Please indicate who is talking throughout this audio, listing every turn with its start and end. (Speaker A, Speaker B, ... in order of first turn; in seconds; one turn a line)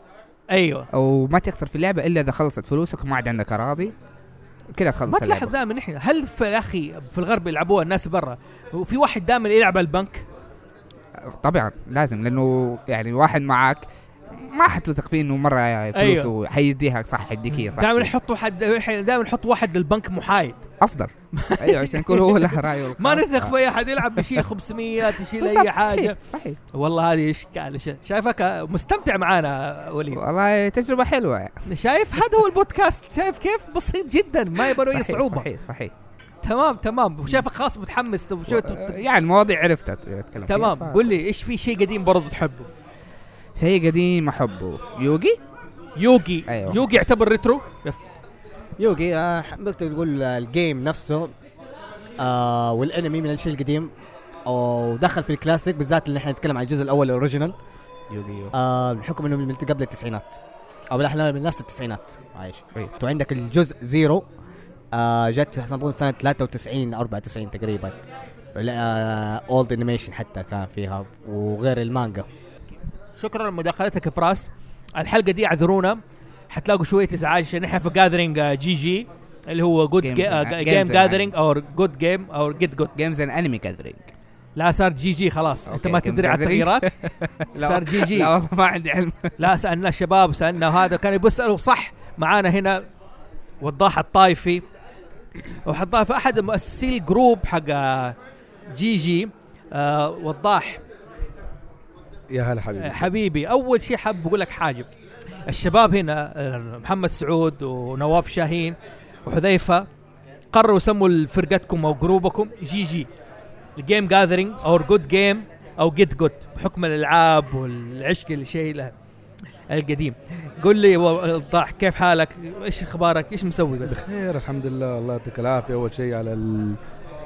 Speaker A: 0.5-0.9
Speaker B: 0.9-3.9
Speaker B: 4.7-5.5
Speaker A: 5.0-10.2
Speaker B: 11.4-18.1
Speaker A: 15.9-16.3
Speaker A: 17.5-20.6
Speaker B: 20.8-24.5
Speaker A: 21.3-26.2
Speaker B: 25.1-26.6
Speaker A: 26.7-30.2
Speaker B: 30.1-31.6
Speaker A: 31.6-35.5
Speaker B: 34.6-35.9
Speaker A: 36.4-39.0
Speaker B: 38.5-41.1
Speaker A: 40.5-42.7
Speaker B: 43.6-45.4
Speaker A: 46.0-48.0
Speaker B: 46.5-46.9
Speaker C: 48.8-51.3
Speaker C: 52.2-53.9
Speaker C: 54.5-57.5
Speaker B: 58.1-58.5
Speaker C: 58.5-64.2
Speaker C: 64.9-68.0
Speaker C: 68.5-72.3
Speaker A: 73.2-76.0
Speaker A: 76.5-82.9
Speaker B: 80.0-81.3
Speaker B: 83.0-84.1
Speaker A: 84.6-86.9
Speaker B: 85.7-89.3
Speaker A: 87.5-88.3
Speaker A: 89.4-92.8
Speaker A: 93.6-94.6
Speaker A: 95.7-98.2
Speaker A: 98.7-100.8
Speaker D: 102.3-103.1
Speaker A: 102.8-104.9
Speaker A: 105.5-109.9
Speaker A: 110.5-113.1
Speaker A: 113.8-118.9
Speaker A: 119.7-124.0
Speaker D: 123.8-126.8